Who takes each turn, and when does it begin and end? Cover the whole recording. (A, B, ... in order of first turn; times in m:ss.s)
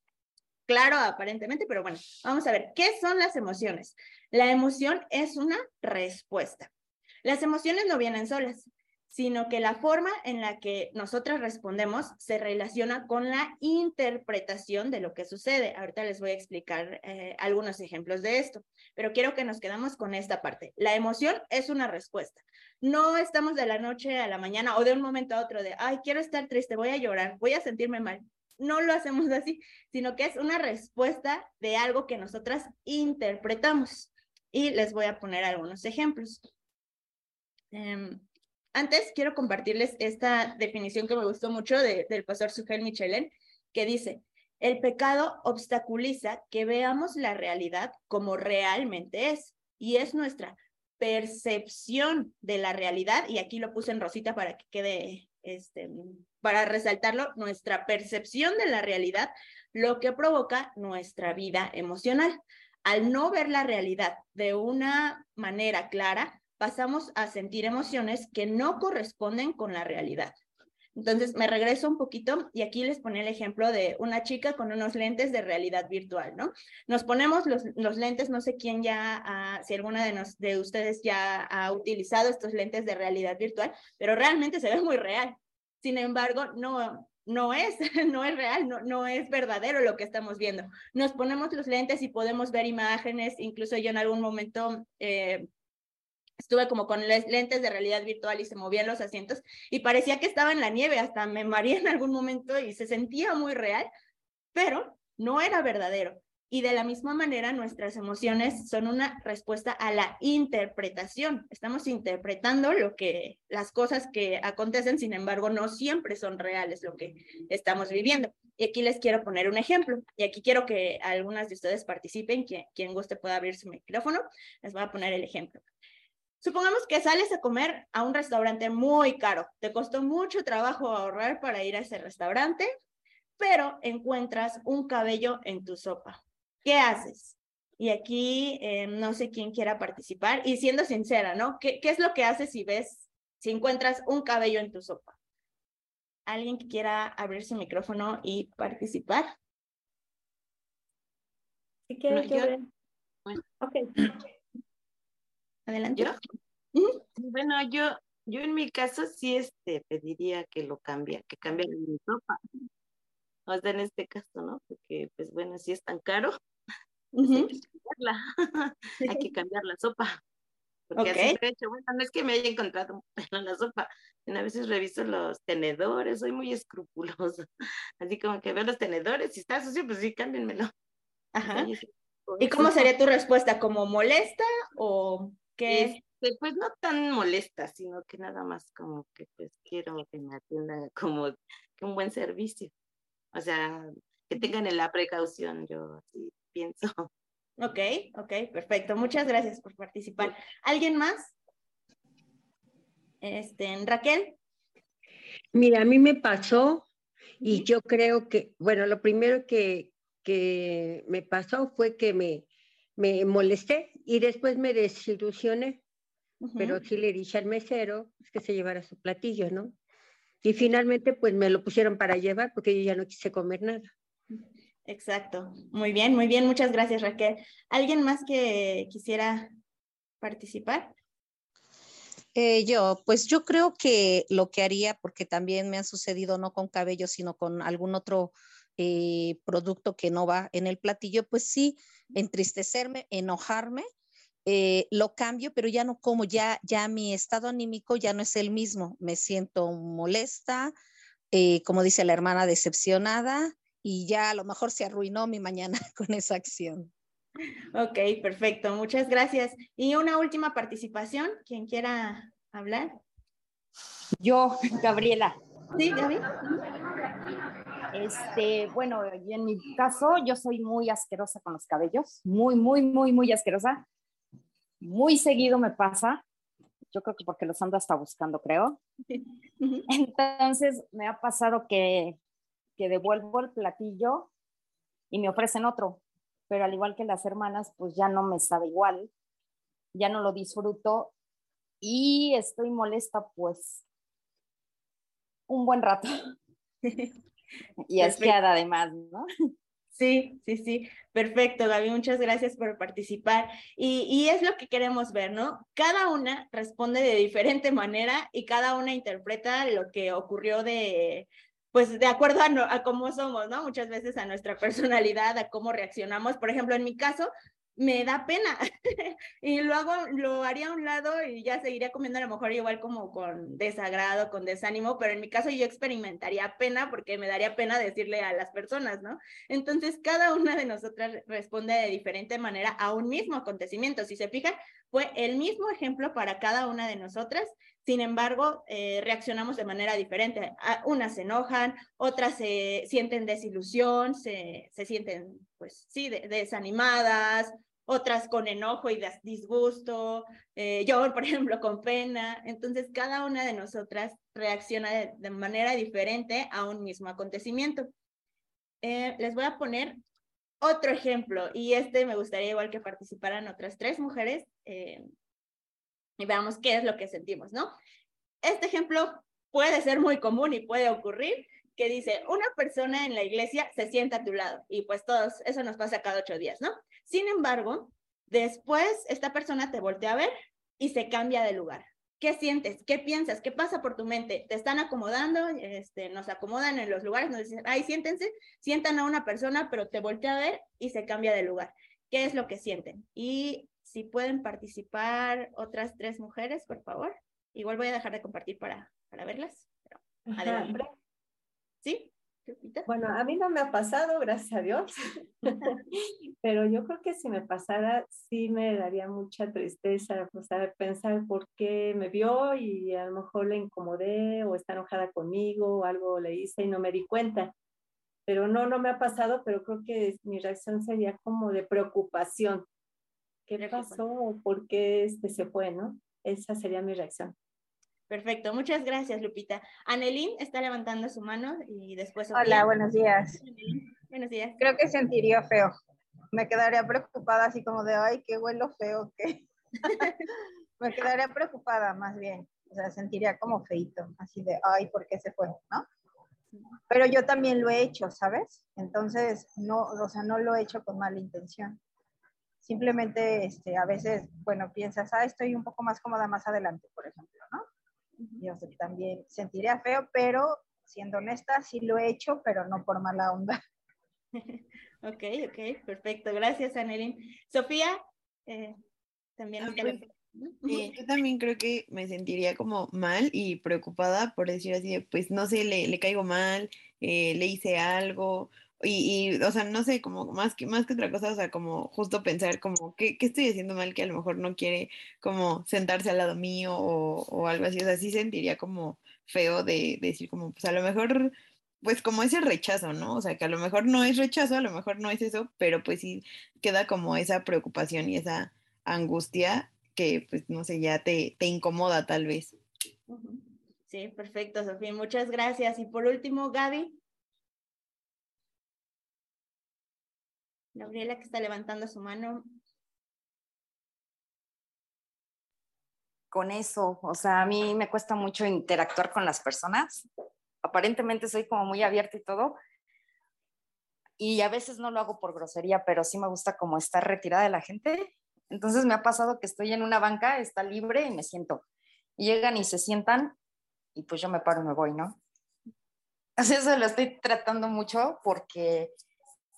0:00.7-0:06.7 A
0:07.2-0:36.4 A
0:37.7-0:38.2 A
0:38.7-1:10.3 A
1:11.0-1:35.5 A
1:36.4-1:43.9 A
1:44.5-2:05.6 A
2:06.4-2:12.7 A
2:13.4-2:25.2 A
2:26.3-2:29.3 A
2:31.9-2:32.6 B
2:32.1-2:32.5 C
2:33.6-2:33.9 B
2:35.7-2:36.2 A
2:37.2-2:42.4 C
2:43.5-2:46.4 C
2:47.1-2:47.5 A
2:47.2-2:50.2 C
2:50.9-2:57.4 C
2:51.0-2:51.3 A
2:58.0-3:00.7 C
3:01.3-3:01.7 A
3:01.4-3:02.9 C
3:02.4-3:06.0 A
3:05.7-3:12.7 C
3:13.3-3:17.1 C
3:17.6-3:21.3 A
3:23.2-3:24.4 A
3:25.5-3:26.8 D
3:27.4-3:35.8 D
3:36.4-3:36.8 A
3:36.6-3:39.8 D
3:40.4-3:43.9 D
3:44.9-3:49.5 A
3:50.2-3:50.9 A
3:52.3-4:03.8 E
4:04.4-4:10.7 E
4:11.3-4:16.9 E
4:17.7-4:22.9 A
4:24.2-4:25.4 F
4:25.7-4:26.3 A
4:27.9-4:33.8 F
4:34.8-4:36.2 F
4:36.9-4:38.8 F
4:39.6-4:39.8 A
4:39.9-4:42.2 F
4:42.8-4:44.3 F
4:45.1-4:49.1 F
4:49.9-4:51.1 F
4:51.8-4:53.8 F
4:55.5-4:56.1 F
4:56.8-4:57.1 A
4:57.9-4:59.2 F
4:58.0-4:58.3 A
4:59.9-5:57.9 A
5:58.8-6:00.0 A
6:00.6-6:05.0 A
6:06.2-6:07.7 A
6:08.4-6:40.8 A
6:40.3-6:40.9 B
6:41.8-6:42.9 A
6:42.8-6:45.8 B
6:46.4-6:57.5 B
6:58.3-7:02.6 B
7:03.5-7:07.3 B
7:03.6-7:04.0 A
7:08.1-7:12.7 A
7:12.3-7:13.4 G
7:13.4-7:14.6 A
7:14.6-7:15.7 G
7:16.3-7:20.1 G
7:20.8-7:25.8 G
7:26.9-7:31.8 G
7:32.6-7:37.6 G
7:38.4-7:43.6 G
7:44.3-7:48.8 A
7:49.4-7:50.9 A
7:49.6-7:50.0 H
7:50.7-8:22.6 H
8:23.1-8:27.0 A
8:30.7-8:32.5 A
8:36.3-8:40.0 F
8:40.6-8:42.6 F
8:44.2-8:51.6 F
8:52.2-8:53.4 F
8:53.9-8:55.2 F
8:56.4-8:58.9 F